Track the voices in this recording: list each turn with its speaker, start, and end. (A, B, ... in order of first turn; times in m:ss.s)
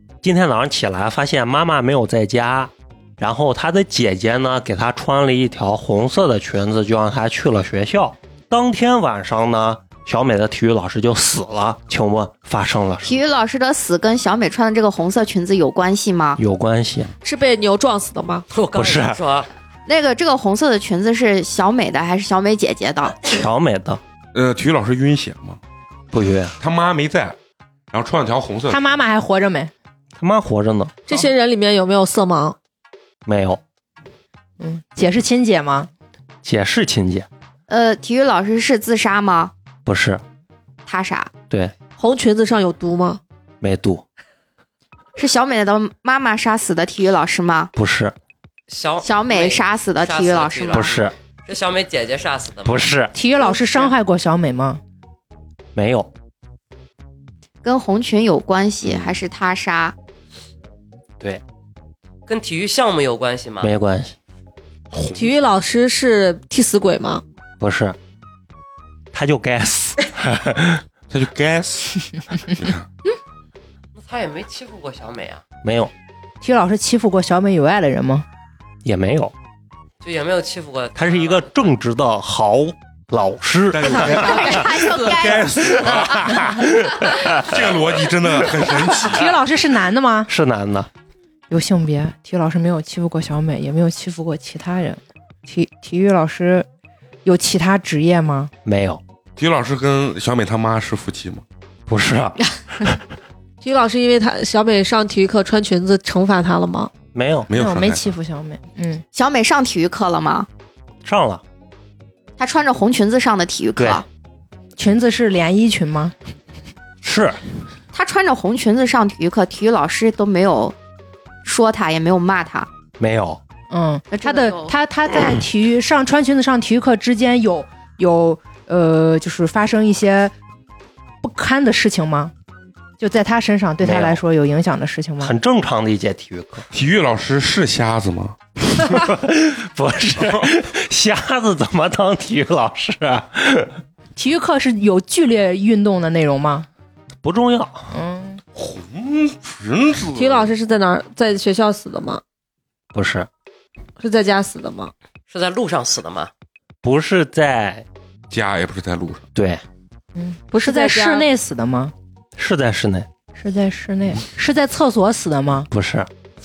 0:00.2-0:13.2 A
0:13.0-0:16.4 B
0:16.4-0:17.1 A
0:17.2-0:18.4 C
0:18.5-0:19.5 D
0:18.7-0:19.2 A
0:19.8-0:23.3 B
0:23.3-0:24.0 A
0:24.3-0:25.6 E
0:26.1-0:26.5 A
0:26.6-0:27.4 E
0:27.9-0:29.0 E
0:28.7-0:29.7 F
0:30.2-0:31.0 A
0:31.1-0:32.6 C
0:33.2-0:33.6 A
0:34.6-0:35.9 F
0:36.4-0:37.3 A
0:37.7-0:39.5 B
0:39.8-0:40.2 A
0:40.8-0:41.3 B
0:42.0-0:43.2 C
0:43.6-0:44.0 A
0:45.2-0:47.7 B
0:47.8-0:48.1 A
0:48.7-0:52.9 D
0:49.0-0:50.9 B
0:50.7-0:51.1 A
0:52.6-0:53.1 A
0:53.1-0:54.8 F
0:53.4-0:53.9 B
0:55.7-0:56.1 A
0:57.6-0:59.9 B
1:02.3-1:03.7 D
1:03.6-1:04.2 A
1:04.9-1:05.3 E
1:05.1-1:07.2 C
1:07.6-1:08.0 A
1:09.1-1:10.8 A
1:11.1-1:12.9 E
1:14.0-1:15.4 D
1:15.6-1:15.9 A
1:16.4-1:18.2 F
1:18.8-1:19.3 A
1:20.0-1:21.5 D
1:21.0-1:24.9 A
1:23.7-1:29.4 E
1:23.9-1:25.9 B
1:25.8-1:27.6 A
1:29.0-1:30.3 F
1:30.3-1:30.9 A
1:31.5-1:36.6 F
1:37.2-1:38.5 F
1:38.6-1:39.0 A
1:39.4-1:41.4 E
1:41.9-1:43.0 A
1:43.6-1:46.9 C
1:47.1-1:47.5 A
1:47.5-1:48.1 E
1:47.5-1:49.0 F
1:49.1-1:50.5 B
1:51.0-1:51.4 A
1:52.4-1:54.0 B
1:53.8-1:54.0 A
1:54.8-1:56.1 F
1:57.0-1:57.4 A
1:57.9-2:00.7 B
2:01.4-2:02.7 B
2:03.0-2:03.4 A
2:03.7-2:10.3 F
2:04.1-2:04.7 B
2:11.2-2:12.3 F
2:13.0-2:15.3 F
2:13.8-2:14.2 A
2:15.2-2:16.6 A
2:16.7-2:18.4 E
2:18.8-2:23.8 A
2:20.2-2:20.5 E
2:24.2-2:26.7 F
2:27.2-2:27.9 A
2:27.9-2:28.4 F
2:28.5-2:30.5 E
2:30.1-2:32.2 C
2:32.9-2:33.3 A
2:34.0-2:34.9 C
2:35.3-2:36.3 D
2:36.8-2:37.8 A
2:38.3-2:39.3 E
2:39.3-2:39.6 A
2:40.1-2:41.9 F
2:40.5-2:41.3 C
2:42.4-2:43.1 A
2:43.3-2:45.7 F
2:45.7-2:46.1 A